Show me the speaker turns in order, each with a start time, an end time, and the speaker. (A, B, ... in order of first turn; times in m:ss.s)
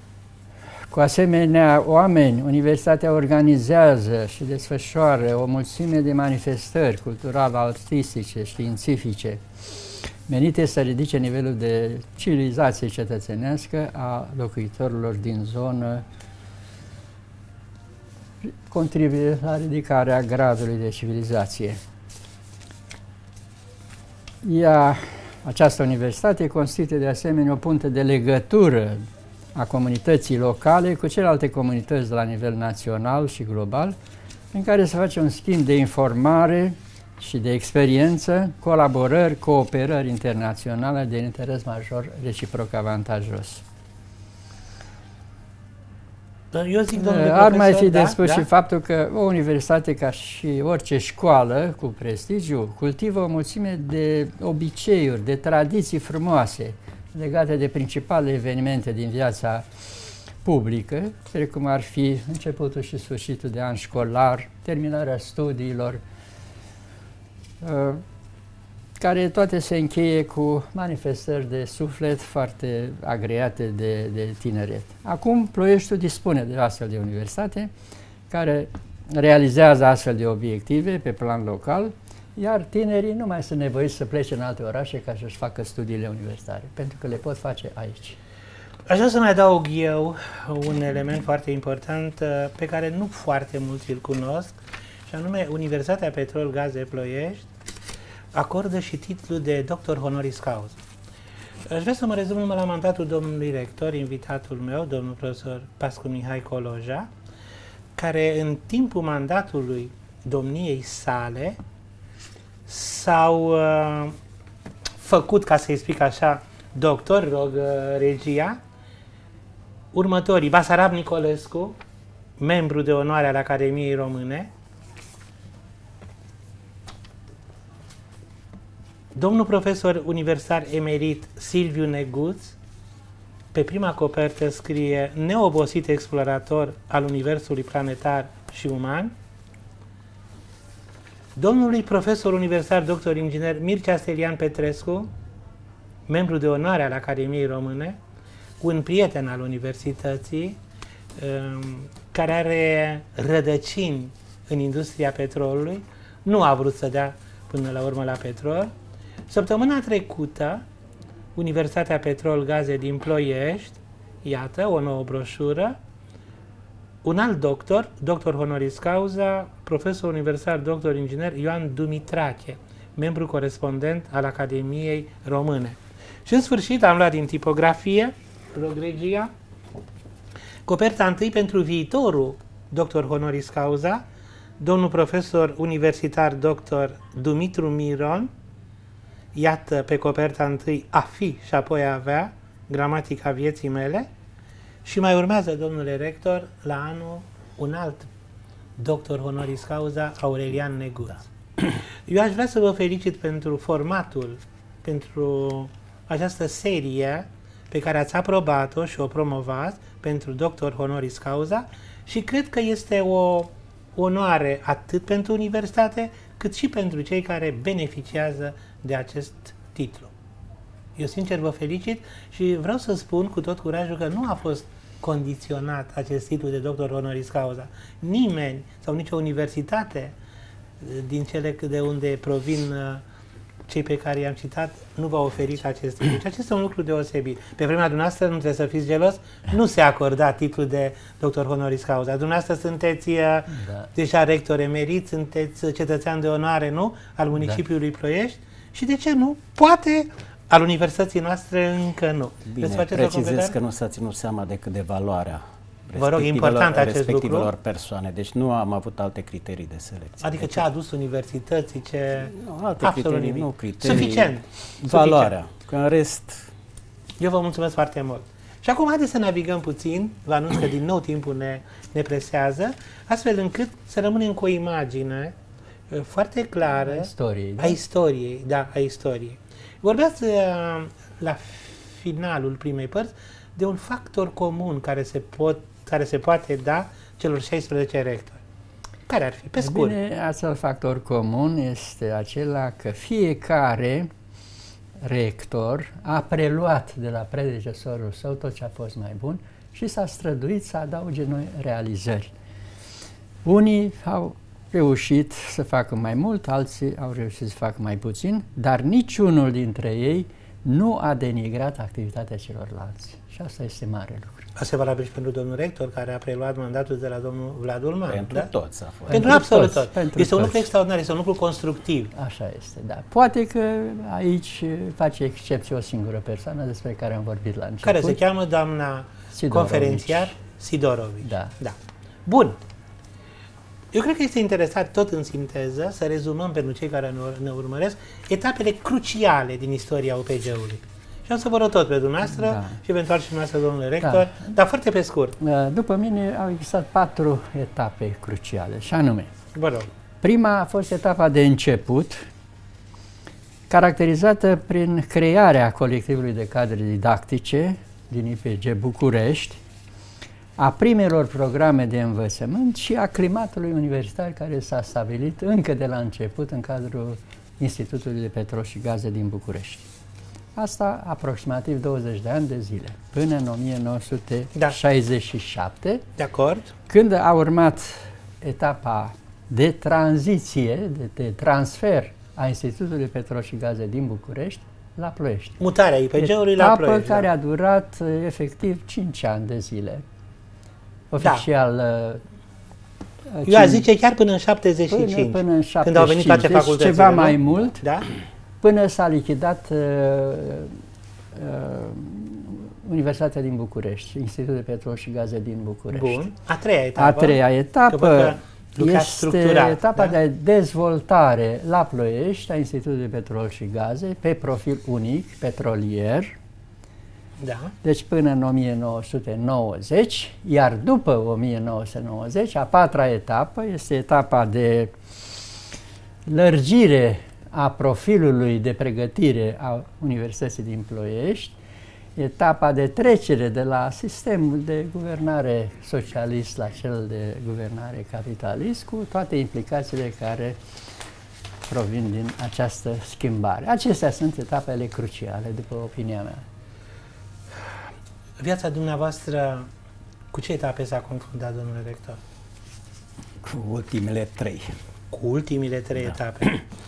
0:00.9-0:16.0 A
0:18.4-0:21.8 A
0:24.4-0:34.0 A
0:34.5-0:43.6 A
0:46.5-0:48.5 B
0:46.9-0:59.7 A
1:00.4-1:06.0 A
1:07.6-1:08.0 A
1:09.0-1:17.7 A
1:18.3-1:28.2 A
1:28.9-1:34.6 B
1:35.1-1:37.4 B
1:38.3-1:40.8 B
1:41.7-1:47.1 B
1:48.0-1:51.6 B
1:52.7-1:54.2 B
1:55.0-1:58.6 B
1:59.9-2:01.8 B
2:02.4-2:04.5 B
2:09.1-2:12.5 B
2:13.5-2:19.1 B
2:21.4-2:25.1 B
2:26.1-2:28.0 B
2:28.6-2:30.6 B
2:31.2-2:38.7 B
2:39.3-2:40.6 B
2:41.4-2:45.8 B
2:47.0-2:59.3 B
3:00.7-3:04.0 B
3:04.6-3:08.3 B
3:09.3-3:14.1 B
3:14.8-3:18.1 B
3:18.8-3:40.1 B
3:41.0-3:50.1 B
3:50.8-3:53.0 B
3:53.7-4:13.5 B
4:03.5-4:03.9 A
4:12.4-4:20.6 C
4:16.0-4:17.5 B
4:20.2-4:25.4 B
4:22.3-4:26.5 C
4:27.2-4:35.3 B
4:35.9-4:48.4 B
4:36.8-4:37.8 A
4:49.1-4:50.0 B
4:49.6-4:54.1 A
4:55.0-5:02.3 A
5:03.4-5:14.4 A
5:14.6-5:18.5 B
5:18.1-5:19.4 C
5:19.1-5:20.6 A
5:19.1-5:22.1 B
5:22.1-5:28.2 A
5:27.8-5:31.7 B
5:29.3-5:30.3 A
5:31.2-5:31.5 A
5:32.2-5:32.6 B
5:33.9-5:45.4 B
5:42.3-5:42.8 A
5:44.0-5:44.4 A
5:45.4-5:49.3 A
5:49.5-5:49.9 B
5:50.2-5:52.2 A
5:53.7-5:59.6 A
6:00.6-6:09.9 A
6:10.6-6:16.0 A
6:16.2-6:16.7 B
6:16.9-6:25.6 A
6:25.6-6:27.3 B
6:26.2-6:30.0 A
6:31.1-6:32.2 A
6:33.3-6:33.8 A
6:33.5-6:38.1 B
6:34.9-6:37.8 A
6:38.6-6:40.8 A
6:41.3-6:46.2 A
6:45.9-6:50.2 B
6:47.0-6:56.3 A
6:57.4-6:57.7 B
6:57.8-7:04.9 A
7:06.2-7:11.6 A
7:12.2-7:20.6 A
7:21.7-7:26.4 A
7:28.4-7:29.7 B
7:30.3-7:32.2 B
7:33.4-7:34.8 C
7:35.1-7:36.5 B
7:36.0-7:36.6 C